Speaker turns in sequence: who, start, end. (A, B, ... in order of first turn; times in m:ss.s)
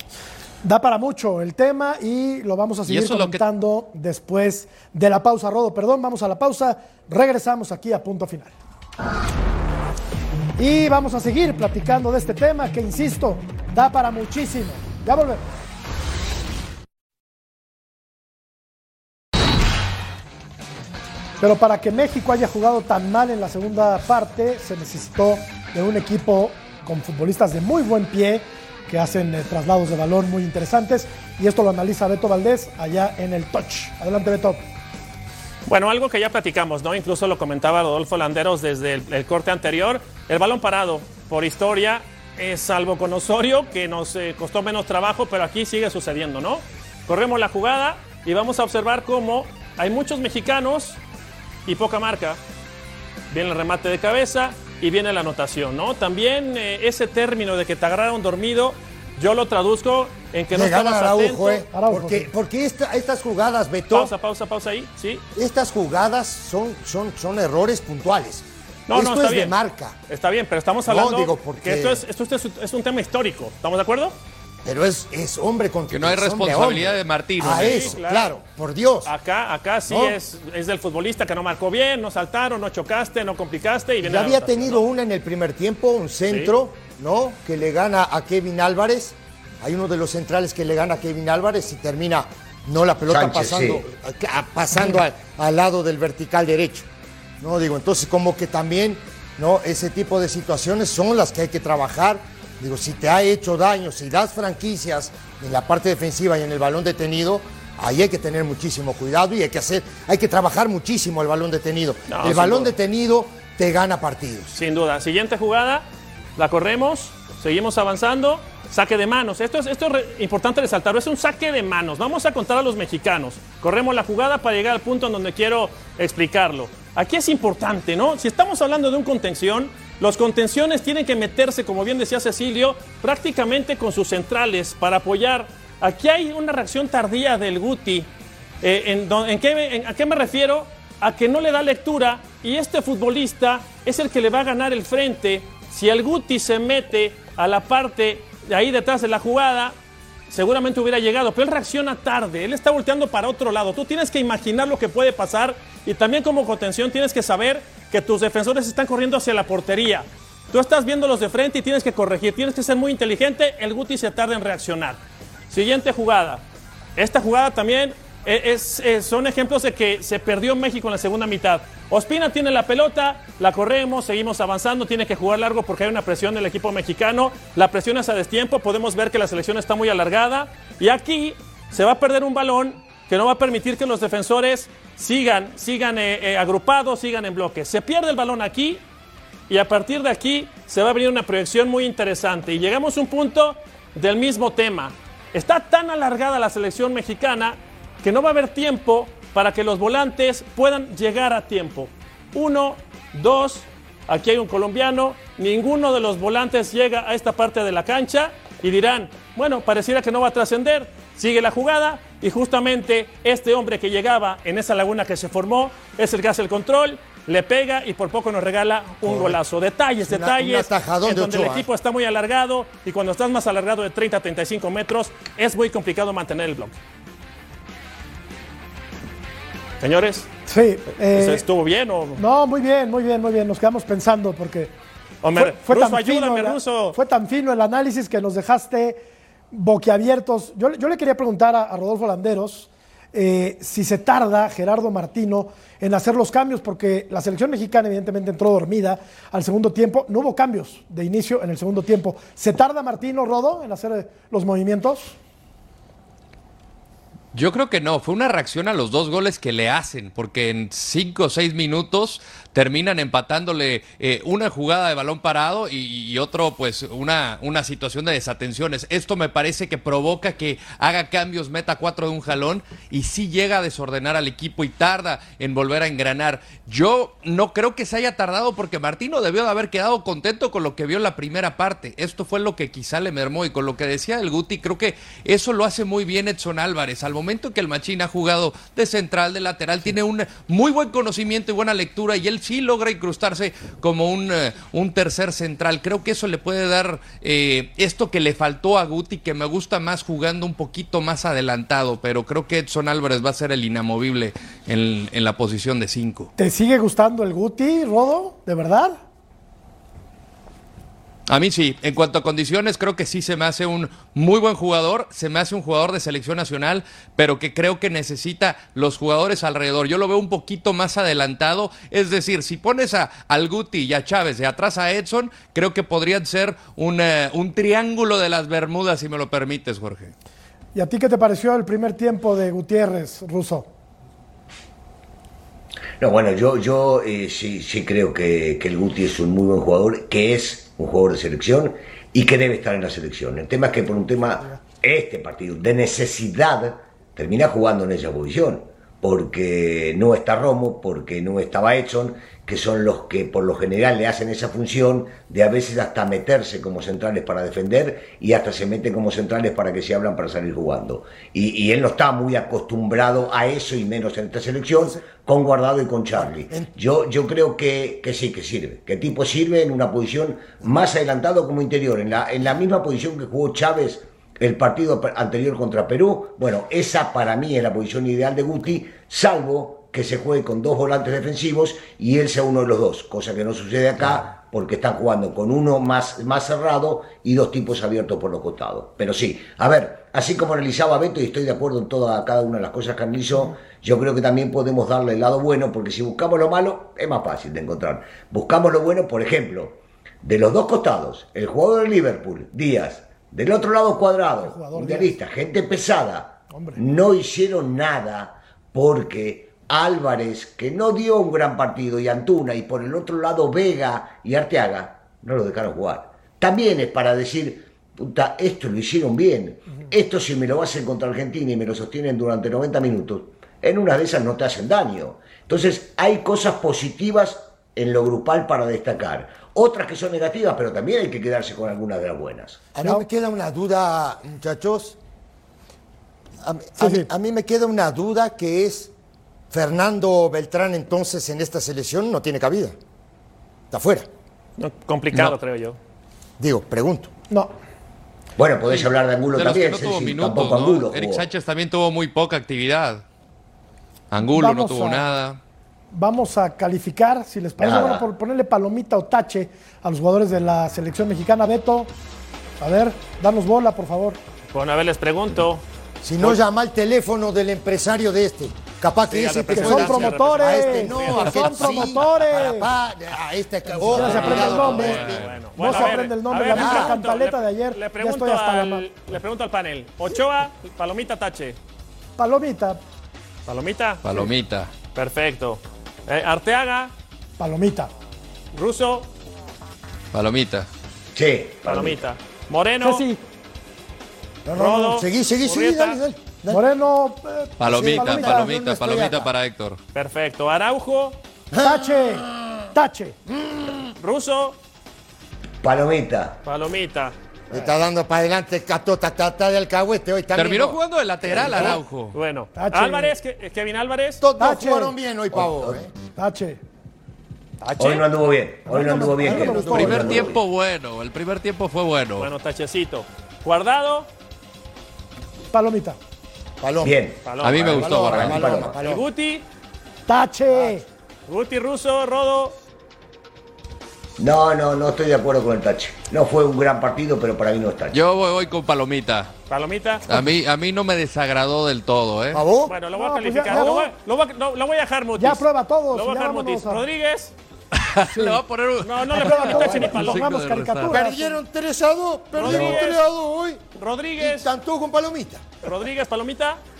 0:00.6-0:08.5 A
0:02.9-0:03.4 B
0:10.6-0:15.4 A
0:21.4-0:34.6 A
0:35.6-0:51.0 C
0:51.6-0:52.4 C
0:53.3-1:01.6 C
1:00.5-1:04.1 D
1:01.7-1:02.3 A
1:03.9-1:05.2 C
1:05.3-1:09.9 D
1:08.9-1:09.5 C
1:10.1-1:14.2 C
1:10.8-1:12.0 D
1:14.6-1:19.1 D
1:15.9-1:17.9 B
1:17.4-1:18.4 C
1:19.0-1:24.8 C
1:19.9-1:20.2 D
1:24.0-1:36.9 D
1:33.1-1:33.8 E
1:37.4-1:54.6 D
1:52.1-1:52.7 C
1:54.5-2:18.1 C
2:18.6-2:29.8 C
2:30.3-2:45.0 C
2:45.5-2:46.4 C
2:47.0-3:08.8 C
3:09.5-3:46.8 C
3:39.0-3:39.4 D
3:40.0-3:41.7 D
3:49.8-3:50.3 C
3:50.5-3:51.4 A
3:51.1-3:52.2 C
3:52.2-3:54.7 A
3:55.2-3:57.0 C
3:55.4-4:15.2 A
4:17.3-5:06.3 B
5:06.4-5:09.0 A
5:11.3-5:30.1 B
5:30.7-5:33.7 A
5:36.0-7:12.6 E
6:06.2-6:06.7 D
6:44.4-6:45.1 A
6:46.5-6:46.8 A
7:12.7-7:15.0 D
7:12.8-7:13.0 A
7:16.4-7:18.9 D
7:16.8-7:17.1 A
7:19.5-7:22.8 D
7:23.7-7:24.1 D
7:24.6-7:25.8 C
7:26.4-7:27.1 D
7:28.4-7:31.3 E
7:29.3-7:33.0 B
7:34.1-7:35.4 B
7:34.2-7:35.1 A
7:35.9-7:41.9 A
7:37.6-7:38.0 E
7:42.6-7:44.2 A
7:44.5-7:45.6 C
7:46.0-7:57.0 D
7:49.1-7:52.2 C
7:49.5-7:52.7 A
7:53.7-7:54.4 E
7:53.9-7:55.0 A
7:53.9-7:55.8 B
7:54.3-8:01.6 C
7:55.6-7:58.9 A
8:02.2-8:02.8 A
8:03.4-8:04.3 C
8:04.0-8:04.7 B
8:04.9-8:06.9 C
8:07.4-8:07.9 A
8:08.5-8:09.1 C
8:10.1-8:10.7 B
8:11.1-8:12.0 E
8:11.6-8:13.0 C
8:12.8-8:13.2 A
8:14.4-8:16.6 D
8:14.6-8:16.0 C
8:16.5-8:18.5 A
8:17.6-8:19.8 B
8:17.6-8:19.3 D
8:19.9-8:21.2 C
8:21.5-8:22.7 D
8:21.6-8:23.2 A
8:23.2-8:23.9 D
8:24.0-8:24.6 C
8:25.6-8:26.4 E
8:26.4-8:27.1 C
8:27.5-8:31.8 D
8:30.3-8:32.2 B
8:32.1-8:34.2 C
8:32.6-8:33.1 A
8:34.2-8:35.9 D
8:34.4-8:35.0 A
8:35.3-8:35.8 E
8:36.2-8:36.6 A
8:37.6-8:38.1 C
8:37.8-8:40.4 E
8:38.6-8:40.3 A
8:38.8-8:40.3 D
8:39.6-8:42.3 B
8:42.2-8:44.1 C
8:45.5-8:46.0 A
8:46.6-8:49.0 D
8:46.8-8:48.8 E
8:47.2-8:49.4 C
8:47.4-8:48.4 B
8:50.1-8:50.8 A
8:51.3-8:52.6 C
8:54.2-8:58.0 E
8:57.9-8:59.3 B
8:59.5-9:00.0 C
9:00.1-9:02.4 B
9:02.3-9:02.8 D
9:02.6-9:07.3 C
9:02.9-9:03.9 A
9:03.4-9:03.8 D
9:05.2-9:06.8 A
9:07.8-9:11.0 B
9:08.1-9:08.4 A
9:08.8-9:10.2 C
9:09.1-9:11.4 A
9:10.9-9:13.6 D
9:12.3-9:13.0 C
9:13.8-9:14.5 C
9:14.2-9:15.5 D
9:15.6-9:16.6 C